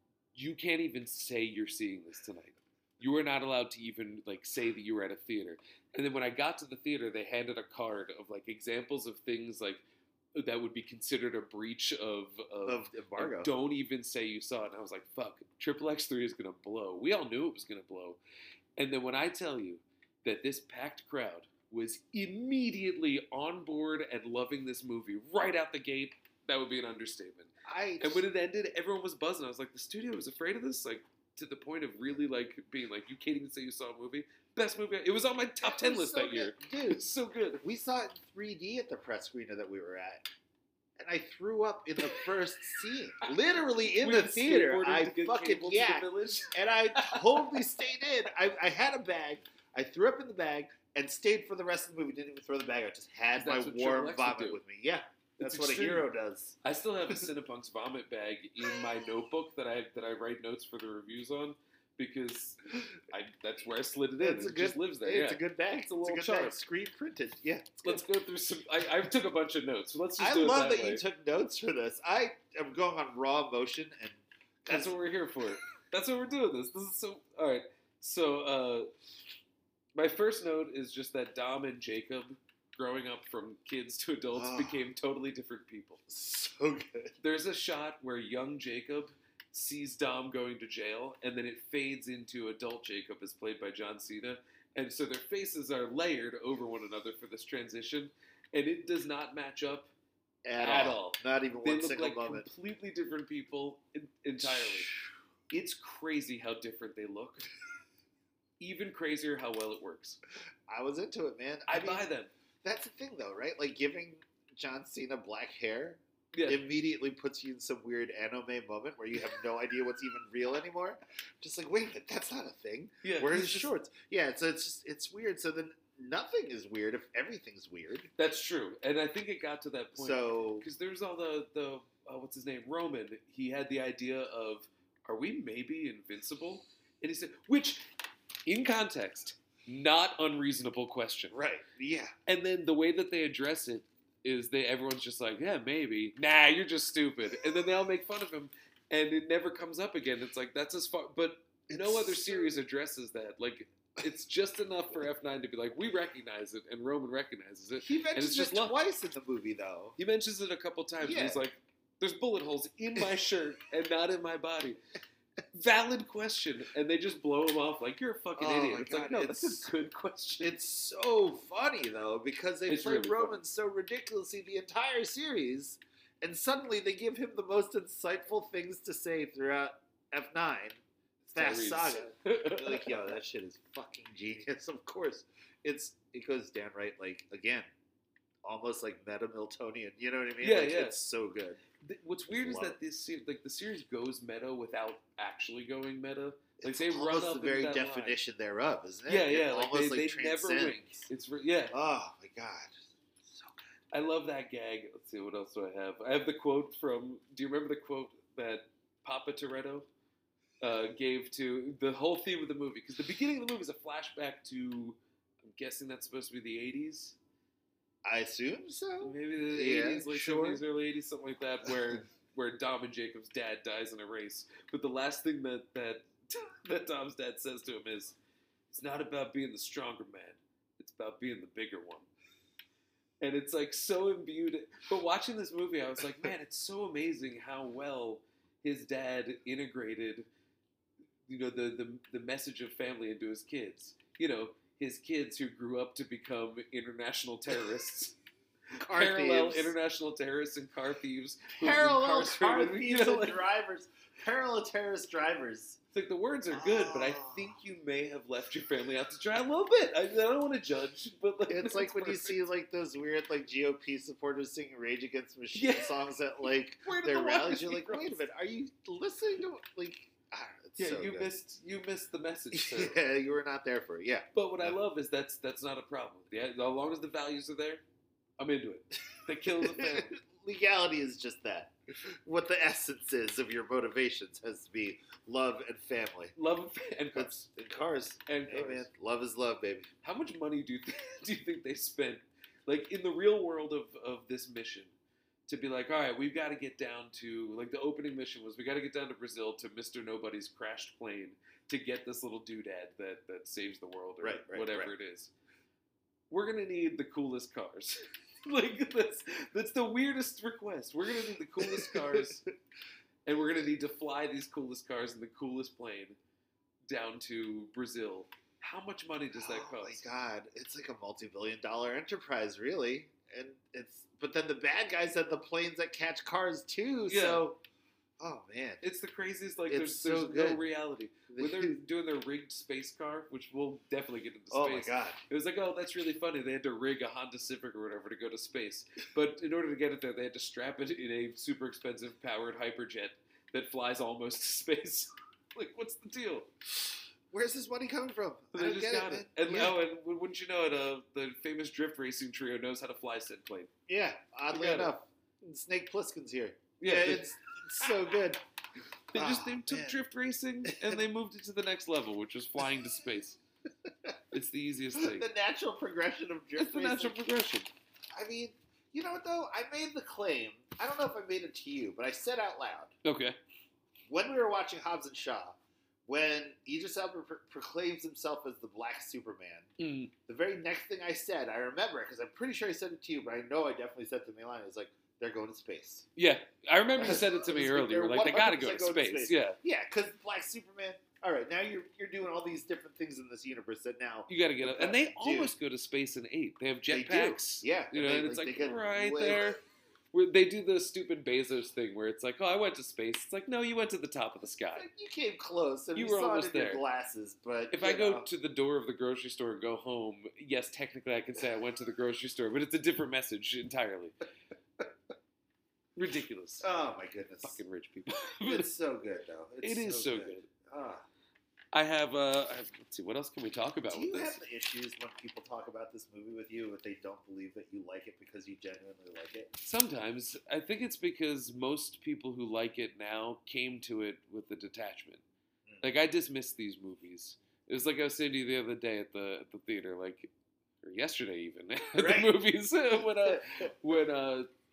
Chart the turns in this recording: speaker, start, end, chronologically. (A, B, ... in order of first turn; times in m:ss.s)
0:00.3-0:09.8 A
0:10.3-0:18.2 A
0:12.6-0:13.5 B
0:18.8-0:37.6 A
0:27.6-0:28.2 B
0:35.6-0:37.1 B
0:37.6-0:40.3 B
0:41.0-0:56.6 B
0:44.0-0:47.6 A
0:53.4-0:54.6 A
0:55.4-0:56.1 A
0:56.6-1:06.6 A
1:04.2-1:08.0 B
1:07.8-1:11.0 A
1:10.2-1:15.0 B
1:14.7-1:18.9 A
1:19.9-1:26.0 A
1:24.3-1:24.8 B
1:26.1-1:27.1 B
1:27.2-1:39.9 A
1:40.4-1:42.5 B
1:40.6-1:44.9 A
1:44.4-1:45.1 B
1:45.5-1:47.5 A
1:48.6-1:50.2 A
1:50.7-1:52.1 B
1:51.7-1:52.3 A
1:52.6-2:08.1 B
1:56.3-1:56.6 A
2:03.0-2:03.7 A
2:08.2-2:17.8 A
2:10.0-2:10.6 B
2:18.4-2:21.4 A
2:21.3-2:22.1 B
2:22.3-2:38.8 A
2:31.7-2:32.5 B
2:37.8-2:40.0 B
2:40.0-2:44.8 A
2:41.0-2:41.4 B
2:45.5-2:50.6 A
2:48.4-2:49.7 B
2:50.4-3:00.8 B
2:52.7-2:53.4 A
3:01.3-3:03.0 A
3:01.3-3:07.7 B
3:08.4-3:11.6 B
3:10.4-3:11.0 A
3:11.8-3:18.2 A
3:12.3-3:12.8 B
3:16.6-3:21.1 B
3:19.1-3:21.8 A
3:21.7-3:23.7 B
3:23.9-3:29.9 A
3:30.6-3:37.2 A
3:38.0-3:40.6 B
3:39.0-3:48.2 A
3:48.7-3:52.1 A
3:53.2-4:00.3 A
4:01.3-4:08.2 A
4:08.7-4:13.4 A
4:08.8-4:09.7 B
4:11.5-4:15.8 B
4:15.9-4:22.4 A
4:16.5-4:17.6 B
4:21.5-4:31.3 B
4:25.5-4:26.0 A
4:26.8-4:28.2 A
4:30.8-4:33.0 A
4:32.5-4:34.8 B
4:34.3-4:37.8 A
4:38.4-4:40.1 A
4:39.4-4:46.3 B
4:46.4-4:47.5 A
4:47.1-4:49.9 B
4:48.2-4:48.9 A
4:50.0-4:54.9 A
4:55.5-5:05.3 A
5:04.2-5:04.9 B
5:06.3-5:12.5 A
5:11.6-5:12.3 B
5:13.2-5:16.2 A
5:16.9-5:20.0 A
5:19.3-5:27.6 B
5:27.1-5:27.4 A
5:28.2-5:28.8 B
5:28.8-5:46.5 A
5:29.7-5:30.6 B
5:31.3-5:31.8 B
5:34.5-5:35.2 B
5:47.3-5:49.8 B
5:48.5-5:53.7 A
5:53.9-5:58.4 B
5:54.5-5:54.9 A
5:56.8-5:57.3 A
5:59.1-6:03.4 A
5:59.1-6:00.0 B
6:00.6-6:01.0 B
6:03.9-6:04.2 B
6:04.3-6:05.3 A
6:04.9-6:07.2 B
6:06.6-6:07.7 A
6:08.1-6:12.9 B
6:13.0-6:13.4 A
6:14.1-6:19.7 B
6:19.8-6:20.1 A
6:20.2-6:26.0 B
6:26.2-6:29.6 A
6:27.0-6:35.5 B
6:34.3-6:39.6 A
6:36.9-6:39.6 B
6:40.1-6:44.9 A
6:44.7-6:48.3 B
6:45.9-6:46.8 A
6:47.7-6:54.2 A
6:56.0-6:56.7 A
6:56.6-6:57.6 B
6:57.4-6:58.7 A
6:58.4-7:01.0 B
6:59.6-7:00.5 A
7:01.7-7:04.4 A
7:03.9-7:09.5 B
7:09.6-7:15.2 A
7:15.8-7:20.3 A
7:20.8-7:24.5 A
7:21.9-7:22.3 B
7:23.1-7:23.7 B